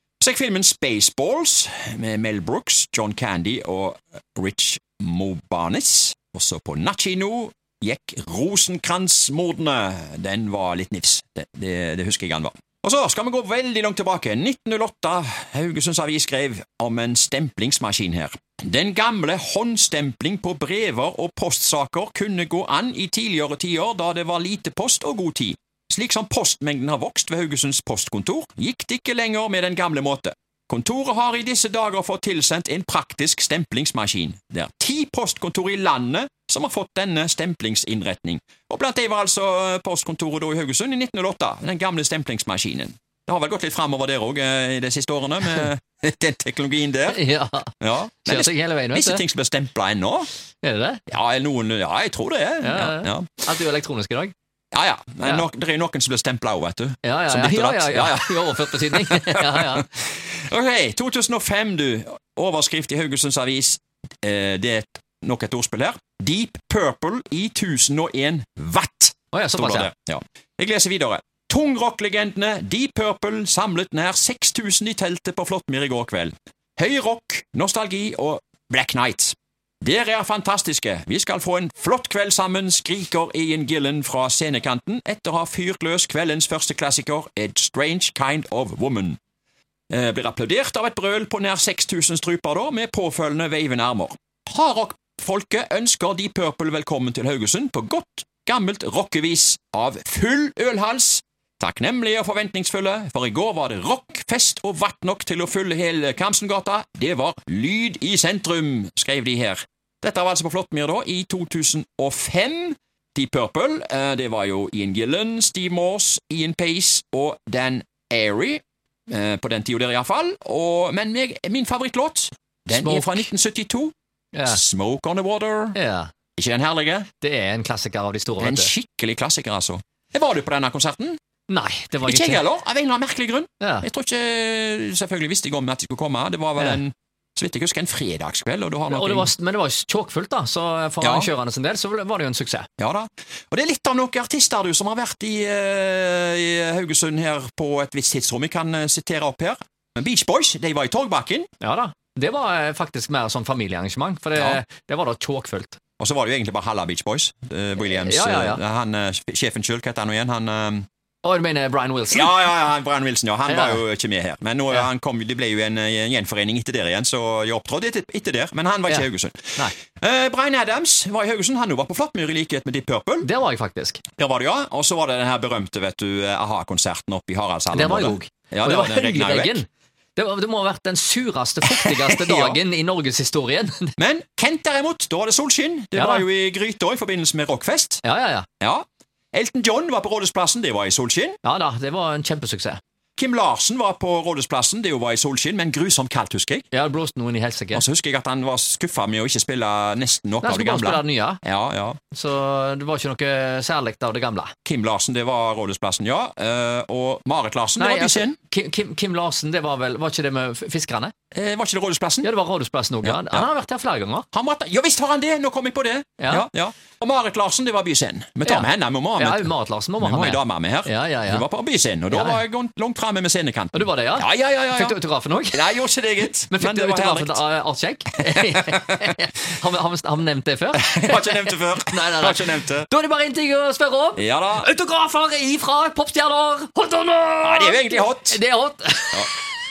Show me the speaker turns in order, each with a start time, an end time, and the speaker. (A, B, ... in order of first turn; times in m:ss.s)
0:00.2-0:47.2 A
0:47.1-0:49.2 B
0:47.8-0:50.3 A
0:50.6-0:51.0 B
0:51.1-0:53.4 A
0:52.6-0:54.3 B
0:54.7-1:29.2 A
0:57.0-0:59.9 B
1:09.3-1:09.9 B
1:29.9-2:03.9 A
2:02.7-2:03.3 B
2:04.3-2:04.6 B
2:04.4-2:05.8 A
2:05.7-2:06.1 B
2:06.4-2:07.1 A
2:07.2-2:08.7 B
2:08.4-2:11.2 A
2:11.5-2:12.4 B
2:12.0-2:19.3 A
2:13.6-2:13.8 B
2:18.9-2:22.7 B
2:21.0-2:21.3 A
2:22.8-2:31.5 A
2:31.6-2:35.8 B
2:34.3-2:34.6 A
2:36.0-2:40.9 A
2:37.8-2:38.6 B
2:41.2-2:42.4 B
2:42.1-2:53.3 A
2:43.5-2:43.8 B
2:53.2-2:54.0 B
2:54.2-2:59.6 A
2:57.7-3:03.9 B
3:01.7-3:02.6 A
3:04.0-3:08.0 A
3:05.9-3:06.2 B
3:08.0-3:08.5 B
3:08.6-3:11.4 A
3:11.4-3:12.8 B
3:13.2-3:16.7 A
3:16.7-3:17.8 B
3:17.7-3:22.0 A
3:20.4-3:21.4 B
3:22.1-3:24.5 B
3:24.6-3:28.4 A
3:27.8-3:31.1 B
3:31.3-3:32.3 A
3:32.2-3:34.2 B
3:33.0-3:33.5 A
3:34.3-3:45.0 A
3:36.2-3:36.5 B
3:38.4-3:41.4 B
3:42.1-3:42.4 B
3:43.7-3:45.6 B
3:45.5-3:47.4 A
3:46.4-3:59.5 B
3:48.4-3:49.1 A
3:50.7-3:52.9 A
3:54.2-3:54.7 A
3:57.4-3:58.4 A